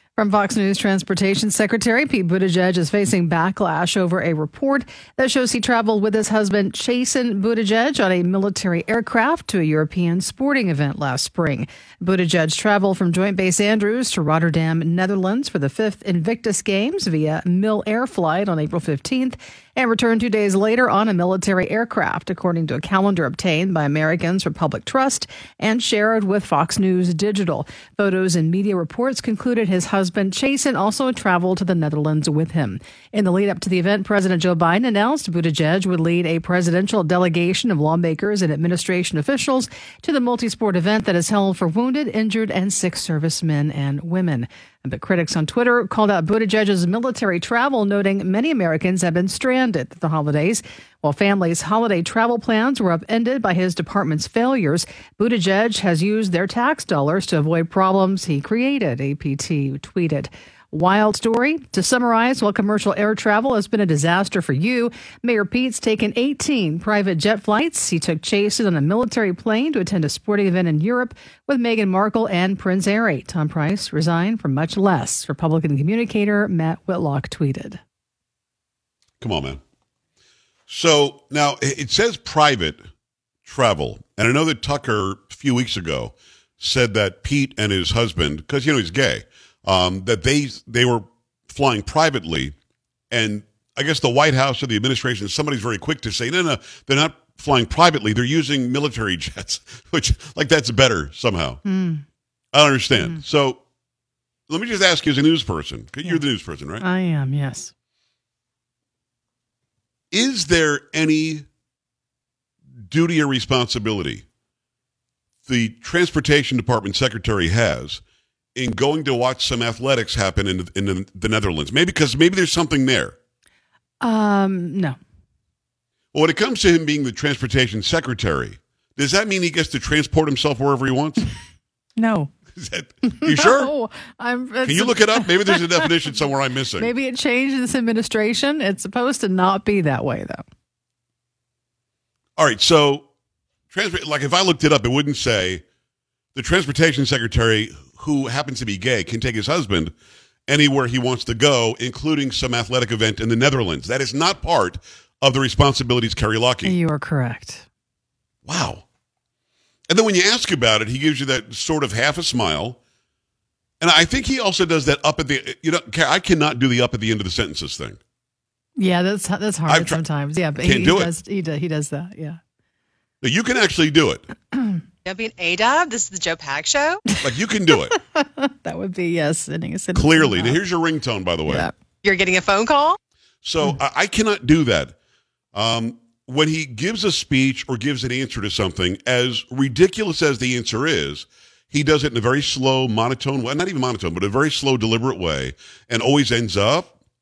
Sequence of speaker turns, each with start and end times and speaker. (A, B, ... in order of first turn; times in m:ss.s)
0:00.2-1:17.8 A
1:19.2-1:19.6 B
1:20.7-1:22.8 B
1:23.4-1:32.5 B
1:33.1-1:41.6 B
1:41.6-1:42.0 A
1:42.5-1:43.6 B
1:44.5-1:46.8 B
1:46.8-1:47.7 A
1:50.1-1:51.4 B
1:52.9-1:54.2 B
1:55.4-1:58.0 B
1:58.6-2:03.2 B
2:04.0-2:05.0 A
2:06.1-2:11.3 B
2:12.0-2:12.3 A
2:12.6-2:13.7 B
2:13.1-2:16.1 A
2:14.6-2:16.9 B
2:16.8-2:20.4 A
2:22.4-2:23.1 B
2:23.7-2:25.6 B
2:26.3-2:29.9 B
2:30.5-2:36.8 B
2:36.6-2:37.6 A
2:38.4-2:38.8 B
2:39.9-2:42.8 B
2:43.8-2:48.0 B
2:48.8-2:52.4 A
2:49.7-2:50.0 B
2:50.6-2:51.1 B
2:53.2-2:54.2 B
2:55.0-2:57.0 C
2:57.2-2:57.9 B
2:57.9-3:00.6 A
2:59.9-3:01.7 B
3:01.4-3:01.7 A
3:02.0-3:03.0 C
3:03.4-3:04.9 B
3:05.5-3:16.9 B